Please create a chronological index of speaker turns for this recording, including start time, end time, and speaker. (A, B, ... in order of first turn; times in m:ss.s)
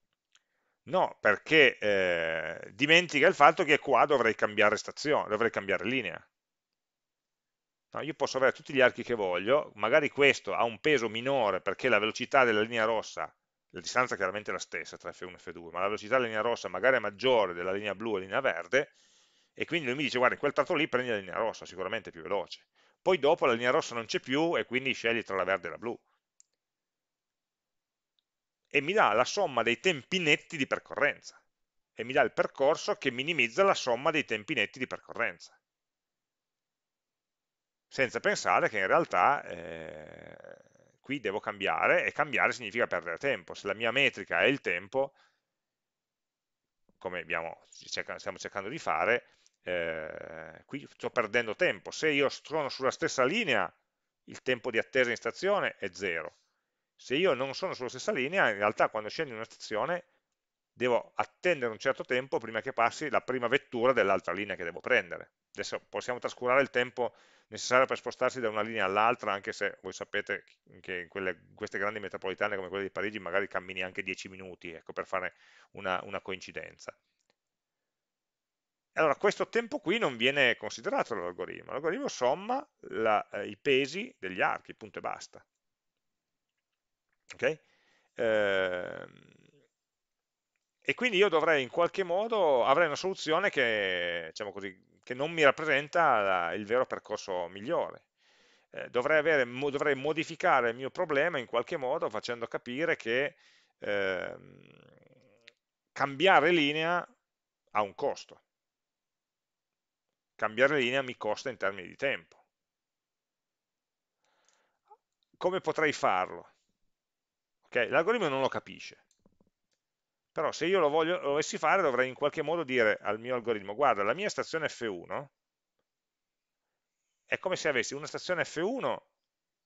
0:00.8-0:06.3 A
0:07.9-0:18.9 A
0:19.6-0:26.0 A
0:28.7-0:31.4 A
0:32.0-0:35.6 A
0:37.9-0:45.1 A
0:47.0-0:53.7 A
0:54.3-0:56.3 A
0:57.0-1:00.0 A
1:00.8-1:17.0 A
1:18.9-1:25.4 A
1:27.3-1:27.6 A
1:28.2-1:29.3 A
1:30.8-1:38.0 A
1:38.7-1:44.8 A
1:45.9-1:47.1 A
1:47.7-1:48.4 A
1:50.4-1:52.4 A
1:55.4-1:56.5 A
1:57.6-1:59.0 A
2:00.3-2:05.3 A
2:07.3-2:09.0 A